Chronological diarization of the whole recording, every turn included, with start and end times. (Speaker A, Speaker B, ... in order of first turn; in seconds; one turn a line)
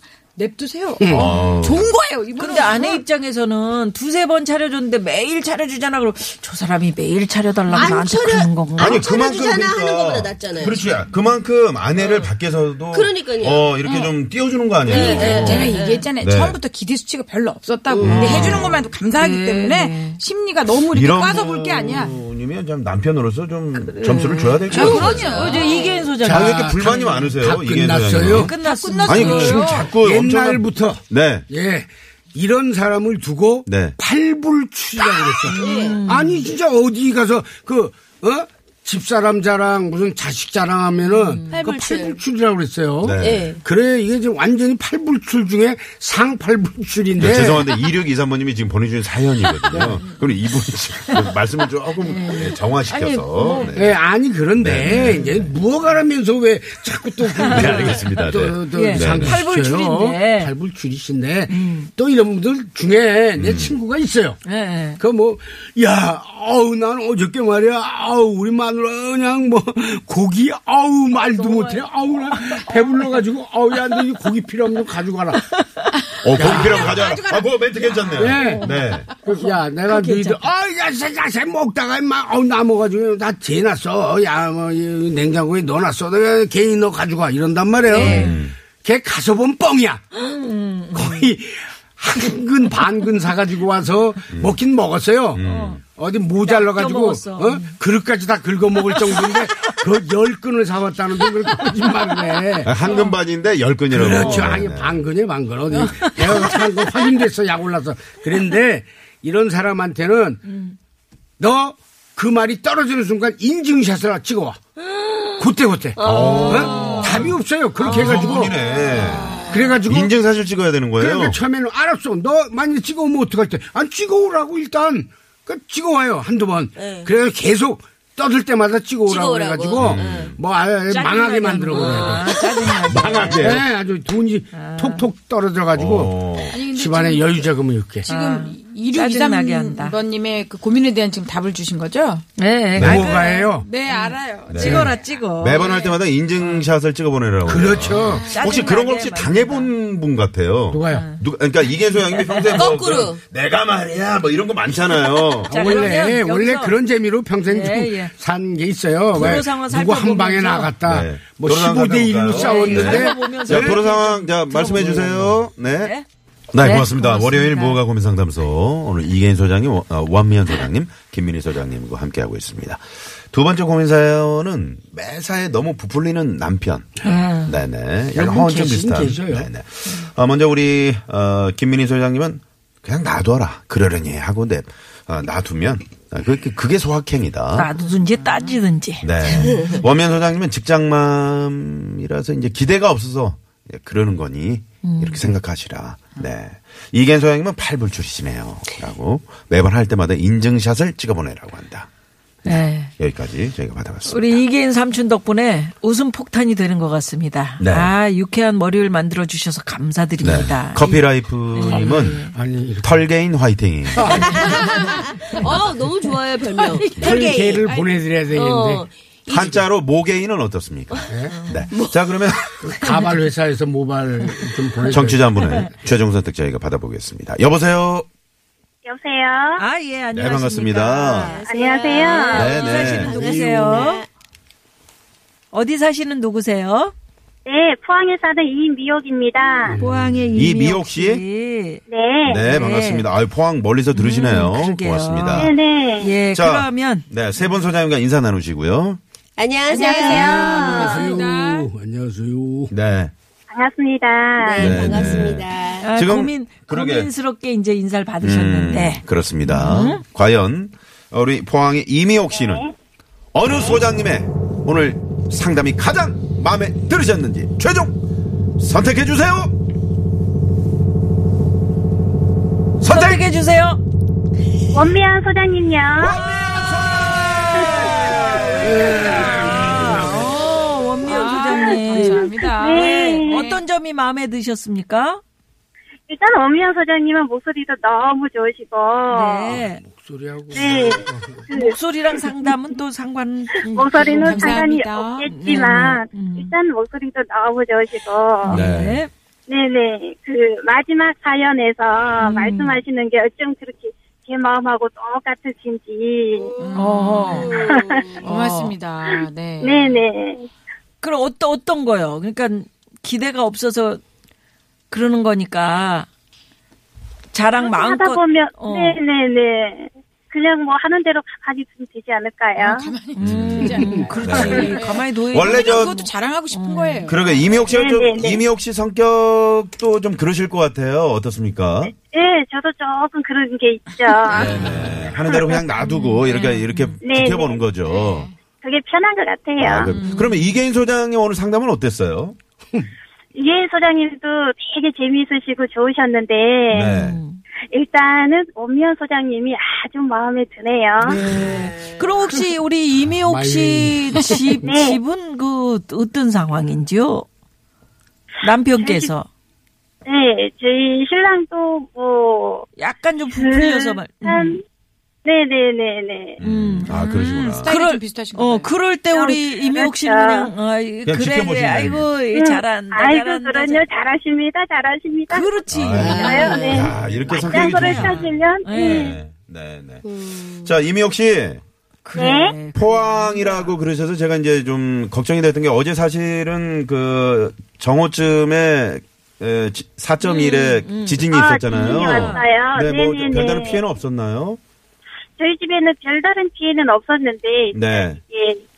Speaker A: 0.3-3.0
Speaker B: 1.0-1.3
Speaker C: 1.1-1.9
Speaker D: 1.3-1.7
Speaker D: 2.4-9.0
Speaker E: 7.7-10.9
Speaker C: 8.8-16.6
Speaker E: 11.9-12.3
Speaker E: 12.9-13.8
Speaker A: 14.8-22.1
Speaker E: 14.9-16.1
Speaker E: 17.9-18.5
Speaker C: 18.0-18.8
Speaker D: 18.3-20.2
Speaker C: 20.8-25.6
Speaker D: 23.7-27.3
Speaker A: 24.7-25.6
Speaker E: 24.7-26.1
Speaker B: 26.1-28.5
Speaker C: 26.2-28.5
Speaker D: 28.3-29.7
Speaker A: 28.5-29.9
Speaker C: 29.1-31.5
Speaker B: 29.6-47.7
Speaker C: 33.6-34.0
Speaker E: 35.0-36.0
Speaker D: 35.5-36.5
Speaker D: 41.0-41.6
Speaker E: 41.5-42.2
Speaker C: 43.0-43.5
Speaker E: 43.2-43.6
Speaker C: 47.2-54.0
Speaker B: 49.7-50.0
Speaker D: 52.0-53.8
Speaker B: 53.7-64.4
Speaker C: 54.6-55.5
Speaker D: 54.9-55.3
Speaker D: 57.4-58.0
Speaker C: 57.5-59.4
Speaker D: 58.7-60.5
Speaker D: 61.5-61.9
Speaker C: 63.4-63.8
Speaker D: 64.4-65.0
Speaker B: 65.0-75.4
Speaker D: 71.2-73.1
Speaker D: 75.5-76.9
Speaker C: 76.2-79.1
Speaker A: 76.3-78.3
Speaker B: 76.4-77.0
Speaker D: 78.1-80.4
Speaker B: 78.2-90.0
Speaker D: 87.9-88.4
Speaker C: 88.0-88.5
Speaker D: 90.2-91.3
Speaker B: 90.9-102.8
Speaker C: 94.3-94.6
Speaker C: 95.3-95.8
Speaker D: 95.4-95.8
Speaker D: 96.4-97.8
Speaker D: 98.9-99.2
Speaker C: 102.6-105.0
Speaker D: 102.8-103.2
Speaker B: 103.9-110.4
Speaker D: 104.1-104.5
Speaker D: 105.7-106.6
Speaker D: 110.4-110.8
Speaker B: 111.4-114.6
Speaker E: 114.8-117.1
Speaker B: 115.4-118.6
Speaker C: 116.0-121.4
Speaker D: 116.3-117.2
Speaker E: 118.1-119.8
Speaker B: 119.5-120.1
Speaker B: 121.0-138.1
Speaker E: 126.8-127.1
Speaker E: 129.1-130.4
Speaker C: 129.8-130.3
Speaker D: 130.9-133.6
Speaker C: 132.9-133.6
Speaker D: 134.5-135.1
Speaker C: 135.7-136.6
Speaker A: 136.5-142.2
Speaker D: 138.1-140.0
Speaker D: 142.3-143.1
Speaker B: 142.7-143.7
Speaker C: 142.8-143.1
Speaker A: 142.9-145.0
Speaker D: 143.8-146.7
Speaker C: 144.5-155.9
Speaker B: 147.4-148.3
Speaker A: 148.1-148.7
Speaker D: 148.3-149.7
Speaker B: 150.7-151.1
Speaker D: 150.9-152.7
Speaker E: 152.5-153.2
Speaker B: 155.4-163.8
Speaker D: 155.5-156.7
Speaker D: 157.5-158.1
Speaker D: 159.1-160.7
Speaker C: 160.8-165.9
Speaker D: 162.3-165.0
Speaker B: 164.6-165.4
Speaker D: 165.7-166.1
Speaker C: 166.5-187.7
Speaker D: 166.6-167.8
Speaker D: 177.0-177.5
Speaker B: 178.1-179.5
Speaker D: 187.5-189.8
Speaker C: 189.0-201.9
Speaker E: 189.3-189.8
Speaker D: 194.8-195.3
Speaker D: 202.4-202.9
Speaker C: 202.5-204.4
Speaker D: 204.1-212.3
Speaker C: 207.6-207.9
Speaker C: 210.2-212.2
Speaker B: 211.6-213.1
Speaker C: 212.8-214.5
Speaker B: 213.9-214.8
Speaker E: 214.1-217.7
Speaker D: 216.7-217.3
Speaker B: 216.8-218.8
Speaker E: 218.3-219.6
Speaker C: 219.3-222.7
Speaker B: 221.1-221.5
Speaker D: 221.3-221.7
Speaker E: 221.7-222.7
Speaker B: 222.6-225.6
Speaker C: 224.9-228.1
Speaker D: 225.4-225.7
Speaker F: 228.8-229.6
Speaker D: 229.6-234.0
Speaker C: 230.1-231.4
Speaker E: 231.1-234.1
Speaker F: 231.5-232.5
Speaker C: 232.3-233.3
Speaker B: 233.3-233.8
Speaker D: 235.5-236.9
Speaker F: 237.4-239.8
Speaker B: 239.7-240.2
Speaker D: 239.8-241.8
Speaker C: 240.3-241.2
Speaker F: 241.9-242.4
Speaker C: 242.2-245.6
Speaker D: 242.4-243.1
Speaker D: 243.9-247.1
Speaker F: 245.3-246.1
Speaker C: 246.3-249.0
Speaker E: 249.4-251.2
Speaker A: 249.7-251.7
Speaker D: 249.7-250.7
Speaker B: 250.7-252.7
Speaker C: 252.7-253.1
Speaker F: 253.5-254.8
Speaker E: 254.4-255.9
Speaker C: 254.6-257.1
Speaker D: 254.6-255.2
Speaker D: 255.8-260.0
Speaker C: 258.2-262.7
Speaker F: 262.3-262.7
Speaker C: 263.3-267.9
Speaker C: 268.6-269.5
Speaker C: 272.8-273.3
Speaker D: 272.8-273.8
Speaker F: 274.7-276.1
Speaker C: 276.0-278.9
Speaker D: 276.2-276.6
Speaker F: 277.5-278.1
Speaker D: 277.8-285.2
Speaker B: 278.6-280.3
Speaker C: 279.5-280.0
Speaker A: 281.0-283.6
Speaker F: 281.2-283.5
Speaker F: 286.1-289.5
Speaker D: 289.1-289.8
Speaker B: 289.5-291.4
Speaker F: 290.5-291.8
Speaker D: 291.5-294.6
Speaker F: 293.7-298.6
Speaker A: 294.0-295.3
Speaker D: 295.3-296.5
Speaker D: 298.4-299.1
Speaker C: 298.5-299.0
Speaker F: 299.5-308.2
Speaker D: 302.2-302.8
Speaker A: 306.6-307.7
Speaker D: 306.8-308.7
Speaker E: 307.4-308.2
Speaker A: 308.2-310.0
Speaker F: 309.0-310.5
Speaker D: 311.0-314.0
Speaker D: 314.9-316.1
Speaker D: 317.3-319.0
Speaker F: 317.5-322.9
Speaker A: 322.6-327.2
Speaker D: 323.1-327.6
Speaker C: 323.2-326.0
Speaker B: 323.6-324.2
Speaker C: 327.1-331.9
Speaker F: 327.7-328.4
Speaker F: 332.1-334.5
Speaker A: 334.3-334.9
Speaker C: 334.3-338.3
Speaker D: 335.8-337.0
Speaker F: 337.0-337.6
Speaker A: 337.8-338.3
Speaker F: 338.6-339.9
Speaker C: 339.6-342.4
Speaker A: 339.8-340.4
Speaker D: 339.9-340.5
Speaker F: 343.3-346.9
Speaker C: 346.7-347.2
Speaker D: 346.9-347.4
Speaker F: 347.7-351.2
Speaker D: 351.1-357.3
Speaker B: 351.2-351.6
Speaker B: 353.0-354.6
Speaker F: 354.7-355.0
Speaker D: 358.4-359.3
Speaker F: 358.8-359.1
Speaker F: 360.0-362.6
Speaker D: 362.8-364.6
Speaker F: 363.3-364.6
Speaker F: 365.2-366.4
Speaker C: 366.4-367.7
Speaker D: 366.4-373.8
Speaker A: 366.9-368.7
Speaker F: 369.1-370.5
Speaker C: 371.1-372.1
Speaker F: 372.3-375.6
Speaker D: 375.3-379.1
Speaker C: 375.7-381.6
Speaker E: 375.9-376.9
Speaker F: 376.1-379.2
Speaker E: 380.0-380.7
Speaker D: 382.0-383.8
Speaker F: 382.1-382.5
Speaker C: 382.7-394.6
Speaker D: 390.2-392.5
Speaker F: 391.3-393.8
Speaker F: 395.4-398.6
Speaker C: 397.7-398.2